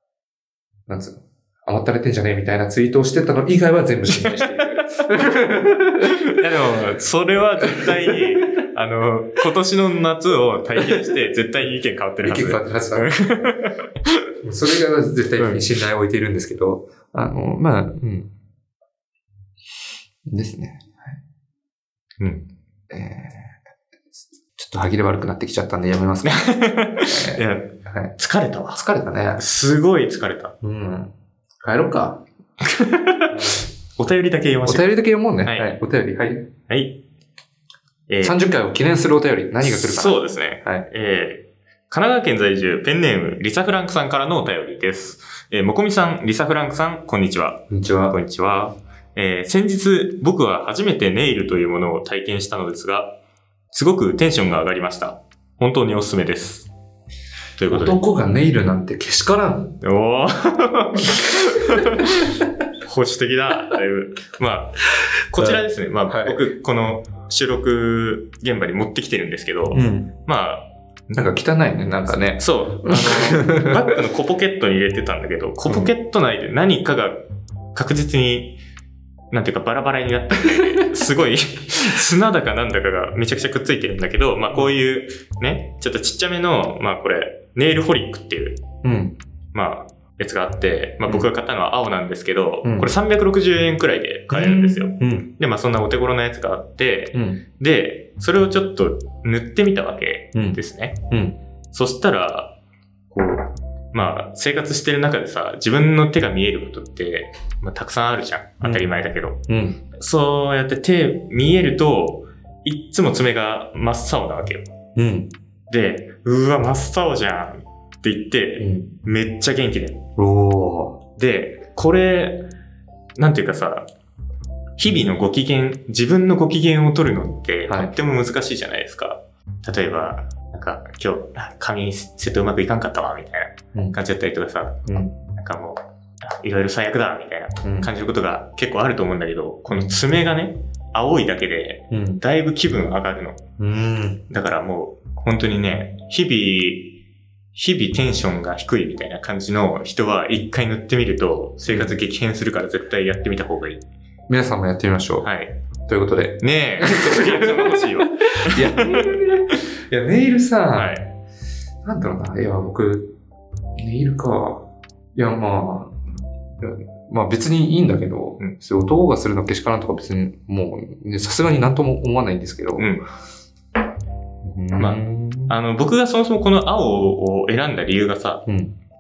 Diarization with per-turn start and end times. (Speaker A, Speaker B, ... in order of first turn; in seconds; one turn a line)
Speaker A: 0.9-6.2
Speaker B: 4.2-5.4
Speaker B: 6.0-14.2
Speaker A: 12.2-13.1
Speaker A: 14.4-18.3
Speaker B: 15.4-15.6
Speaker A: 20.2-21.2
Speaker B: 22.2-22.4
Speaker A: 22.9-23.6
Speaker A: 24.5-26.5
Speaker B: 26.2-28.8
Speaker A: 27.1-28.1
Speaker A: 28.7-29.4
Speaker B: 29.4-30.6
Speaker A: 30.6-32.2
Speaker B: 32.6-34.9
Speaker A: 33.3-33.7
Speaker A: 34.6-36.5
Speaker B: 35.4-35.7
Speaker B: 36.7-37.0
Speaker B: 38.1-38.4
Speaker A: 38.2-40.9
Speaker B: 39.6-53.2
Speaker A: 47.7-48.2
Speaker B: 53.7-56.7
Speaker B: 57.6-58.0
Speaker A: 57.7-59.8
Speaker B: 59.8-71.2
Speaker A: 61.8-62.4
Speaker A: 65.4-66.4
Speaker A: 69.7-70.1
Speaker A: 71.2-74.0
Speaker B: 72.1-78.6
Speaker A: 75.7-75.9
Speaker B: 79.3-88.6
Speaker A: 88.8-89.2
Speaker B: 89.5-101.0
Speaker A: 92.6-92.9
Speaker A: 94.3-95.3
Speaker A: 97.1-97.4
Speaker A: 100.3-101.4
Speaker B: 101.7-102.5
Speaker B: 103.1-109.4
Speaker A: 108.6-108.9
Speaker A: 109.5-109.8
Speaker B: 109.9-114.7
Speaker A: 115.0-115.3
Speaker B: 115.7-120.1
Speaker A: 118.6-118.9
Speaker A: 120.2-121.0
Speaker B: 121.2-122.5
Speaker B: 123.2-123.9
Speaker B: 124.8-134.8
Speaker A: 127.7-127.9
Speaker A: 134.9-135.2
Speaker B: 135.3-143.4
Speaker A: 137.6-137.9
Speaker A: 139.7-140.0
Speaker A: 141.9-142.2
Speaker A: 143.6-144.2
Speaker B: 144.3-146.9
Speaker B: 147.6-153.8
Speaker A: 151.7-152.0
Speaker A: 154.3-155.3
Speaker B: 155.2-155.6
Speaker A: 155.9-161.0
Speaker B: 156.4-159.6
Speaker B: 160.8-161.1
Speaker A: 161.8-163.2
Speaker A: 163.8-166.0
Speaker A: 166.6-172.9
Speaker B: 172.8-173.1
Speaker A: 174.4-175.6
Speaker B: 174.8-178.4
Speaker A: 178.5-178.8